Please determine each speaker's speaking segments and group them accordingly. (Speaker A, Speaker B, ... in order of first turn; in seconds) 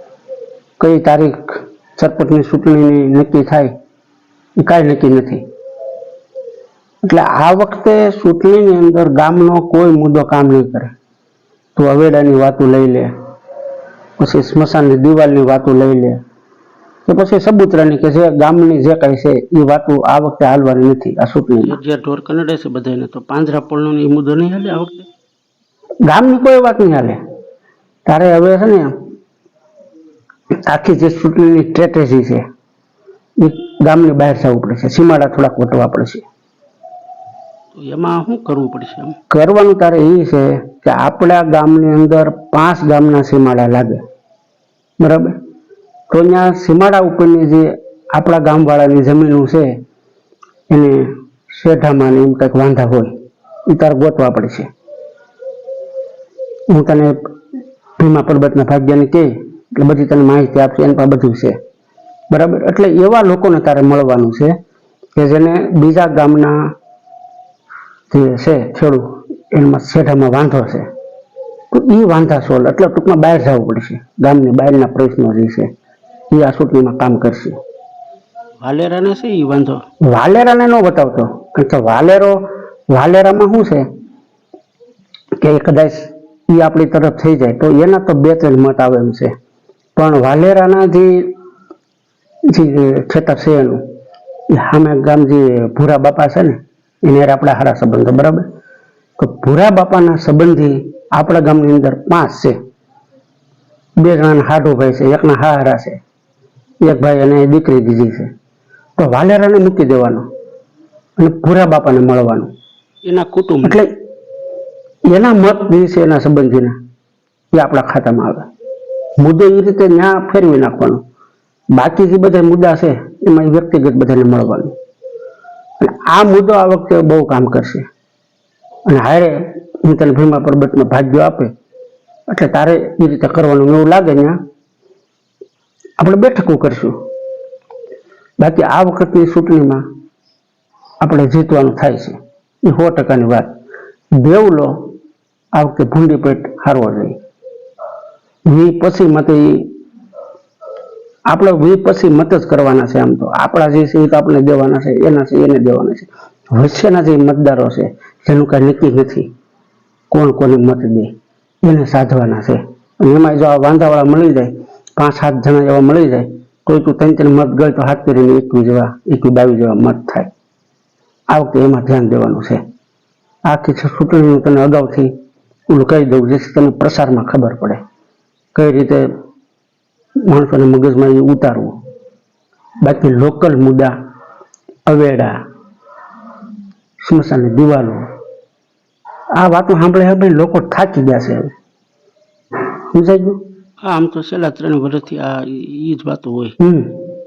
Speaker A: 0.8-3.7, 4.6-5.4, 7.0-10.9, 11.8-13.1, 14.2-16.2, 17.1-21.8, 26.1-27.2, 28.1-28.9, 30.5-32.4, 33.4-36.2, 39.3-44.0, 45.0-45.4, 46.1-49.8, 50.7-53.1, 53.7-54.7, 56.7-57.2, 58.0-61.6, 62.3-64.6, 65.2-66.7, 68.1-70.9, 71.7-75.7, 76.3-77.6, 80.0-83.8, 85.4-89.3, 90.0-91.3, 92.5-93.8, 94.5-98.5, 99.2-102.6, 104.0-106.0, 106.8-108.3, 109.0-110.2, 111.2-112.5, 113.6-113.9, 115.1-116.8, 117.5-118.5, 119.2-121.0, 121.7-124.7, 125.8-127.9, 128.9-131.5, 132.3-134.4, 136.0-137.0, 138.4-139.8, 141.0-143.5, 144.2-144.8, 145.5-147.2, 148.5-149.7, 151.3-159.3, 160.1-161.1, 161.6-170.3, 171.3-172.6, 173.5-175.1, 175.7-177.8, 178.6-179.1, 180.2-181.8, 182.8-183.9, 184.9-185.4, 187.0-188.0, 189.3-191.5, 192.9-193.4, 196.6-197.0
Speaker B: 21.6-25.1, 37.8-39.2, 78.6-79.8, 113.0-113.8, 193.8-196.6